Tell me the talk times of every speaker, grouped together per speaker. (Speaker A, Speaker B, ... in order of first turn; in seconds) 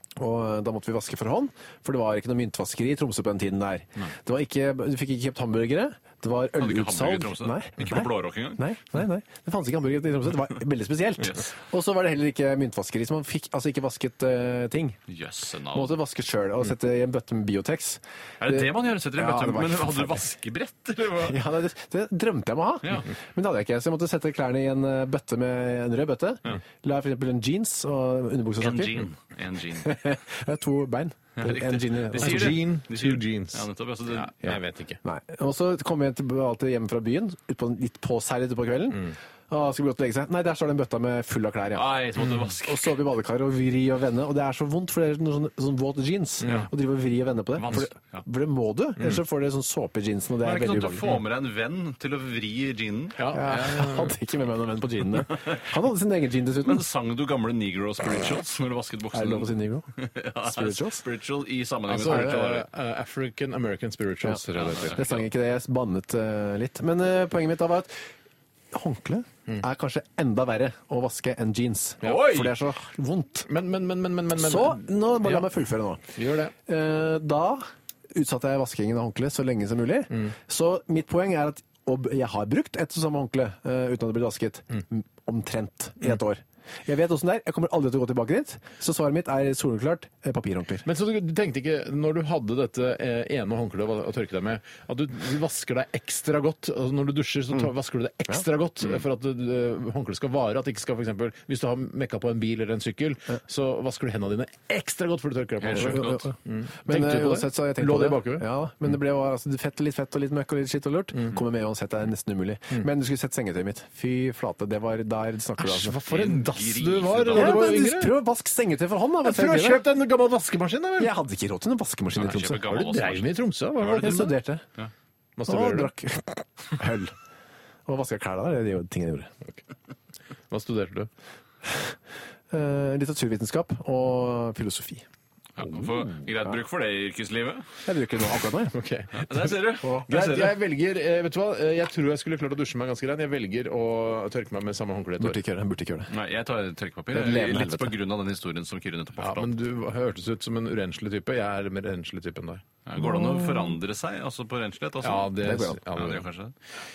Speaker A: 0.2-15.0, 15.7-20.2, 21.2-29.0, 29.8-32.6, 35.0-42.0, 42.6-51.0, 53.3-56.8, 59.1-59.9, 60.4-61.0, 61.9-62.4, 64.9-67.9, 68.7-73.5, 74.3-76.1, 76.7-90.8, 105.7-116.0, 117.3-119.8, 121.0-122.6, 124.0-124.6, 125.5-127.1, 127.8-129.3, 132.5-135.0, 137.8-138.8, 145.2-146.1, 147.1-147.9, 153.0-153.7, 155.4-155.8
Speaker B: 6.6-8.6, 11.2-11.5, 15.1-16.0, 18.4-21.4, 22.8-23.1, 28.6-29.9, 31.4-34.6, 41.7-43.0, 47.6-48.2, 50.4-53.2, 55.3-55.6, 56.6-62.6, 64.5-65.2, 72.0-72.5, 105.6-106.3, 116.0-117.7, 122.1-124.9, 135.6-137.7, 139.2-140.5, 146.1-149.5, 152.8-156.5
Speaker C: 32.1-35.0, 46.4-46.7, 53.2-54.1, 61.9-65.0, 72.0-72.5, 73.5-75.5, 76.1-76.5, 90.8-108.4, 115.6-118.1, 119.2-121.1, 122.6-124.3, 125.4-125.9, 130.5-131.1, 138.7-145.4, 149.2-152.6, 155.0-156.2